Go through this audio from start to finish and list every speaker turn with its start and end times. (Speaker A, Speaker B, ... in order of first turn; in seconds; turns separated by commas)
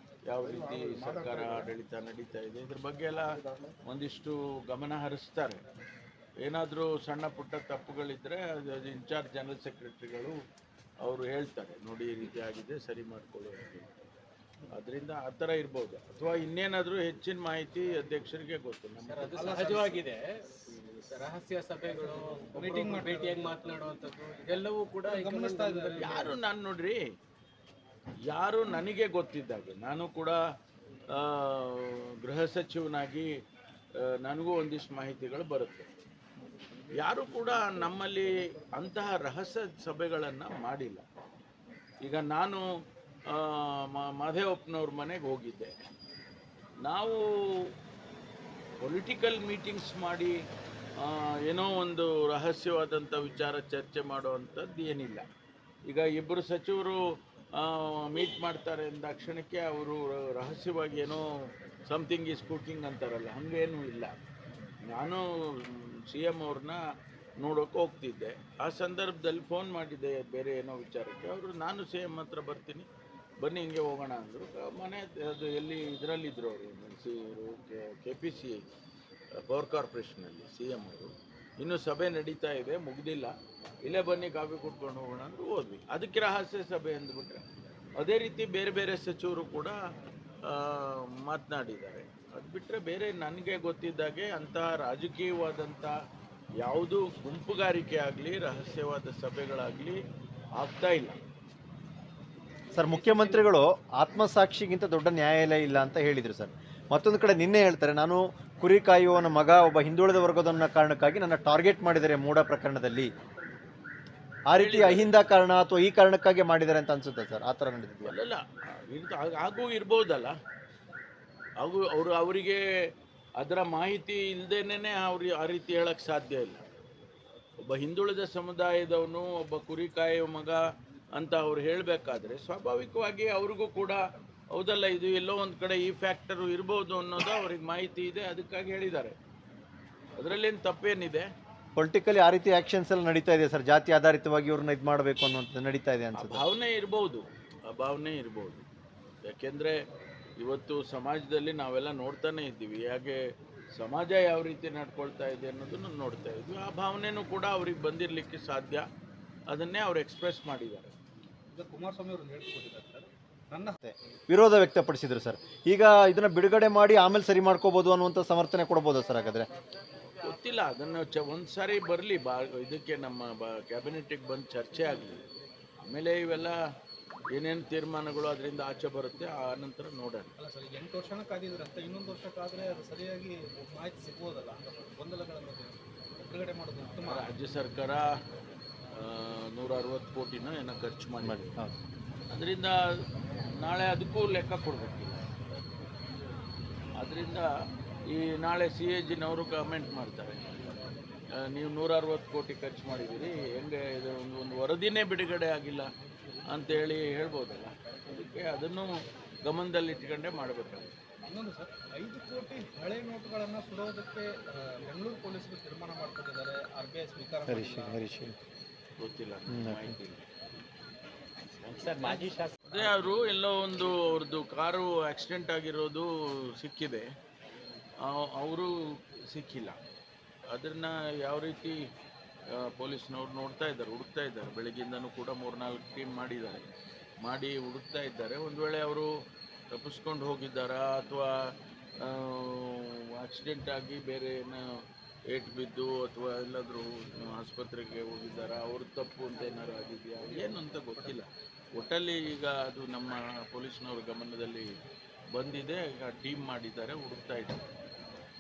Speaker A: 0.3-3.3, Speaker A: 3.9-5.6, Speaker A: 6.4-10.4, Speaker A: 11.0-13.9, Speaker A: 14.7-19.4, Speaker B: 19.1-20.4, Speaker C: 19.3-20.0, Speaker B: 21.1-26.2, Speaker C: 21.9-23.5, Speaker C: 25.1-26.4, Speaker A: 26.0-27.0, Speaker A: 28.3-30.4, Speaker A: 31.1-33.3, Speaker A: 34.0-35.9, Speaker A: 37.0-41.0, Speaker A: 42.0-42.6, Speaker A: 43.3-45.8, Speaker A: 46.8-47.2, Speaker A: 48.8-50.3, Speaker A: 51.0-55.2, Speaker A: 55.9-57.0, Speaker A: 57.6-61.2, Speaker A: 61.9-64.1, Speaker A: 64.9-66.8, Speaker A: 67.4-72.9, Speaker A: 73.4-78.6, Speaker A: 79.4-83.3, Speaker A: 83.8-87.4, Speaker A: 88.0-89.8, Speaker A: 90.5-96.0, Speaker A: 96.6-100.0, Speaker A: 100.6-101.2, Speaker D: 102.7-113.1, Speaker B: 103.0-103.4, Speaker D: 114.5-118.2, Speaker A: 114.5-115.2, Speaker A: 118.0-120.3, Speaker A: 121.6-122.6, Speaker A: 123.4-126.6, Speaker A: 127.6-130.6, Speaker A: 131.2-134.0, Speaker A: 134.5-139.2, Speaker A: 140.2-141.3, Speaker D: 141.8-146.4, Speaker A: 146.2-148.6, Speaker A: 149.2-149.8, Speaker A: 150.4-153.2, Speaker A: 153.8-158.8, Speaker A: 159.5-160.9, Speaker C: 161.5-163.8, Speaker D: 163.8-169.5, Speaker A: 170.2-175.2, Speaker A: 175.8-176.6, Speaker A: 177.3-180.3, Speaker C: 180.4-187.3, Speaker A: 187.1-188.1, Speaker A: 188.9-191.6, Speaker D: 191.2-191.7, Speaker A: 192.3-192.8, Speaker A: 193.5-195.2, Speaker A: 197.0-197.5, Speaker A: 198.1-200.8, Speaker A: 201.3-205.9, Speaker A: 206.5-208.9, Speaker A: 209.4-211.0, Speaker C: 211.2-218.0, Speaker D: 217.5-218.4, Speaker A: 219.0-220.2, Speaker D: 219.5-220.0, Speaker B: 221.6-222.5, Speaker A: 222.7-227.1, Speaker A: 228.0-229.8, Speaker A: 230.5-231.8, Speaker A: 232.5-236.7, Speaker A: 237.2-239.1, Speaker A: 239.7-241.4, Speaker A: 242.0-244.7, Speaker A: 245.3-254.7, Speaker A: 255.3-257.6